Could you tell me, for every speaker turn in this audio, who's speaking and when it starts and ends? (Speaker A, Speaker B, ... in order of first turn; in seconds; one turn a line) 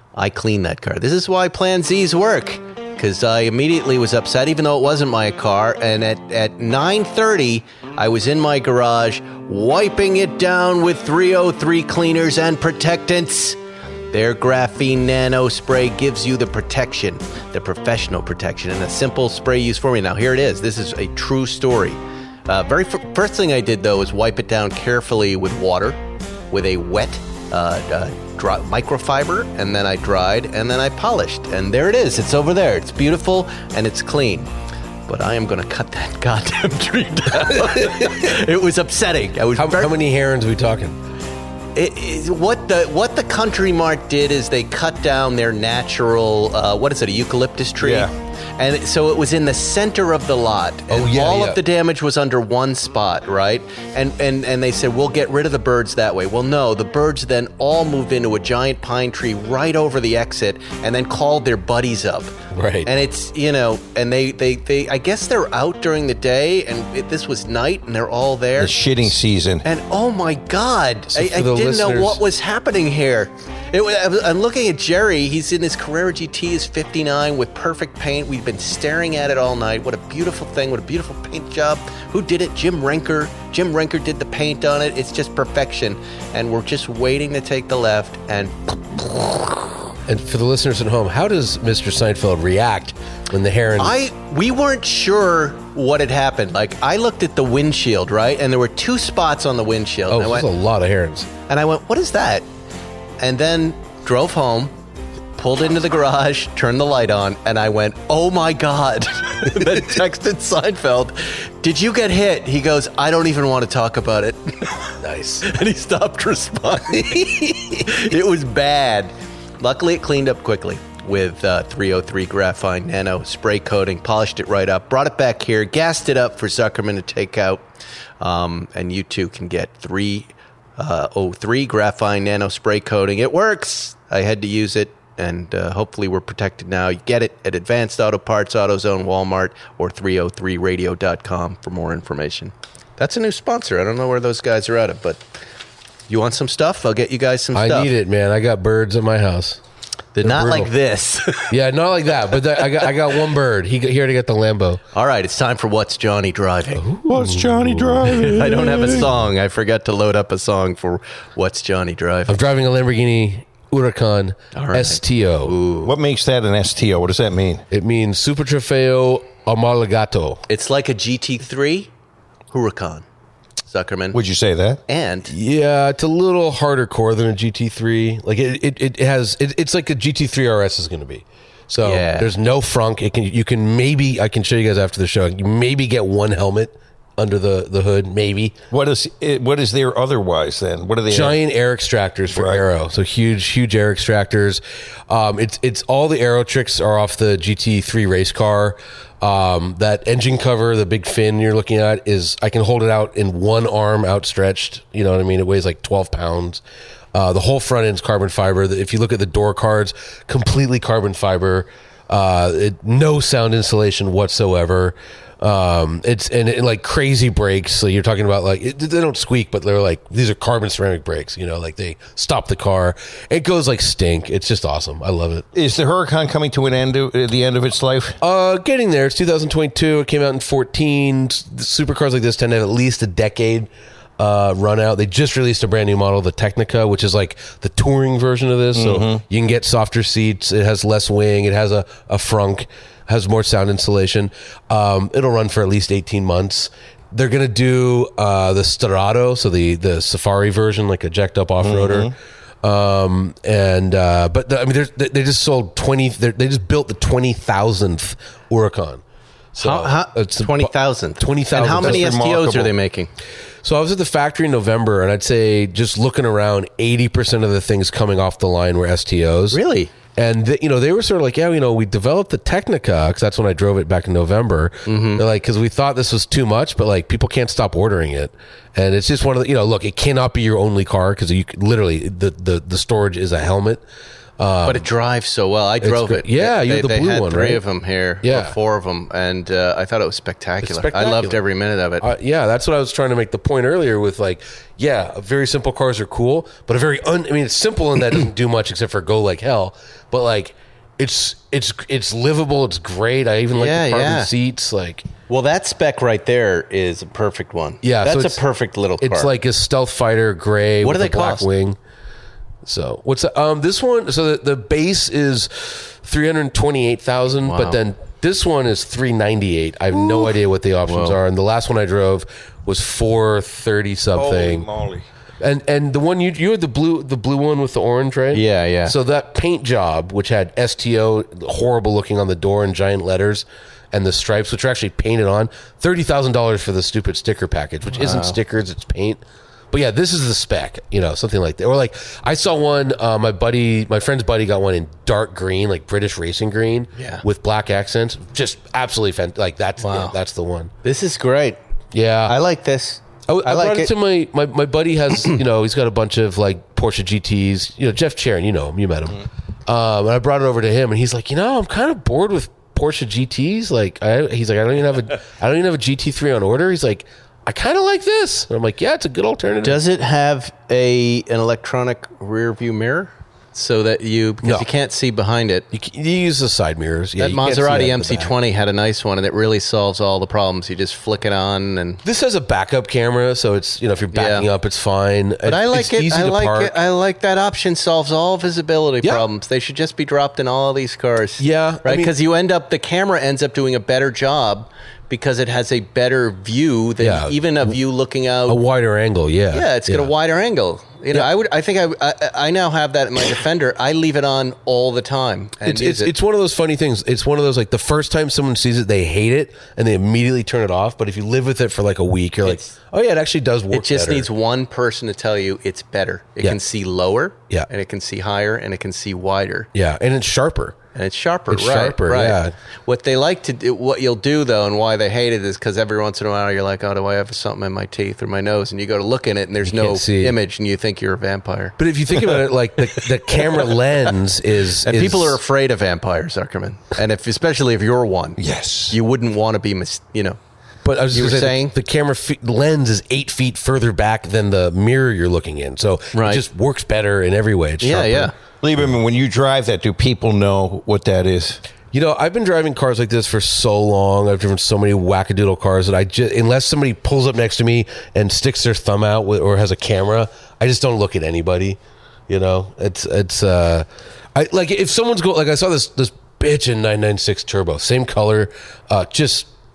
Speaker A: 0.1-13.6
Speaker A: 14.1-26.0
Speaker A: 26.5-34.5
Speaker A: 35.1-39.9
Speaker B: 37.6-38.3
Speaker B: 39.6-41.0
Speaker A: 41.8-62.4
Speaker C: 47.8-48.1
Speaker B: 50.9-51.6
Speaker B: 62.5-62.9
Speaker A: 62.9-68.8
Speaker C: 68.6-69.6
Speaker A: 69.6-89.7
Speaker B: 71.1-72.2
Speaker B: 90.1-94.0
Speaker A: 93.8-100.5
Speaker B: 100.1-101.3
Speaker A: 101.5-102.5
Speaker A: 103.2-104.7
Speaker A: 105.4-127.6
Speaker B: 115.0-115.5
Speaker A: 128.2-145.2
Speaker A: 146.1-147.9
Speaker B: 147.5-149.6
Speaker A: 150.2-151.5
Speaker B: 150.2-150.7
Speaker B: 151.5-154.8
Speaker A: 152.6-152.9
Speaker A: 154.9-156.8
Speaker B: 156.8-158.2
Speaker C: 157.1-159.1
Speaker A: 158.1-162.4
Speaker B: 162.3-165.5
Speaker A: 164.5-165.9
Speaker C: 165.8-167.6
Speaker B: 167.7-170.4
Speaker A: 170.5-171.9
Speaker A: 172.5-173.1
Speaker A: 173.7-174.2
Speaker C: 174.1-174.8
Speaker A: 174.9-175.3
Speaker B: 175.3-188.6
Speaker A: 181.8-182.3
Speaker C: 188.7-191.4
Speaker B: 191.1-206.6
Speaker C: 192.3-192.6
Speaker B: 207.1-225.5
Speaker C: 225.6-228.2
Speaker B: 228.2-259.0
Speaker C: 238.7-239.2
Speaker C: 251.6-252.1
Speaker B: 259.5-262.1
Speaker A: 259.6-263.1
Speaker C: 261.6-262.7
Speaker B: 263.6-269.6
Speaker A: 269.5-269.9
Speaker B: 270.1-283.8
Speaker A: 274.9-275.2
Speaker B: 284.4-284.9
Speaker A: 284.6-292.1
Speaker B: 285.8-287.6
Speaker B: 288.2-288.6
Speaker B: 290.6-291.4
Speaker B: 292.0-305.1
Speaker A: 303.6-304.3
Speaker A: 305.3-309.3
Speaker B: 307.8-308.4
Speaker B: 309.0-311.8
Speaker A: 310.8-311.5
Speaker B: 312.6-324.7
Speaker A: 317.4-317.8
Speaker A: 320.9-321.2
Speaker C: 324.1-325.1
Speaker B: 325.4-339.2
Speaker A: 328.3-329.0
Speaker A: 337.9-338.4
Speaker B: 339.7-350.7
Speaker A: 347.0-347.2
Speaker A: 349.8-350.1
Speaker A: 350.8-351.6
Speaker B: 351.9-352.4
Speaker A: 352.3-353.9
Speaker B: 353.3-369.8
Speaker A: 369.6-375.7
Speaker B: 375.7-378.3
Speaker A: 377.2-382.0
Speaker B: 382.0-386.7
Speaker A: 384.1-384.5
Speaker A: 385.4-398.6
Speaker B: 391.4-392.1
Speaker B: 397.0-397.8
Speaker B: 398.5-400.1
Speaker A: 399.5-406.1
Speaker B: 405.6-414.3
Speaker A: 412.4-412.7
Speaker A: 413.7-419.7
Speaker B: 419.7-420.8
Speaker A: 420.9-431.8
Speaker B: 421.5-422.5
Speaker B: 429.6-430.4
Speaker B: 431.8-435.4
Speaker A: 434.8-440.4
Speaker C: 438.4-439.0
Speaker B: 440.9-448.3
Speaker A: 441.1-441.7
Speaker A: 446.1-446.4
Speaker A: 447.8-448.3
Speaker C: 448.6-451.6
Speaker B: 451.9-461.8
Speaker B: 462.3-469.5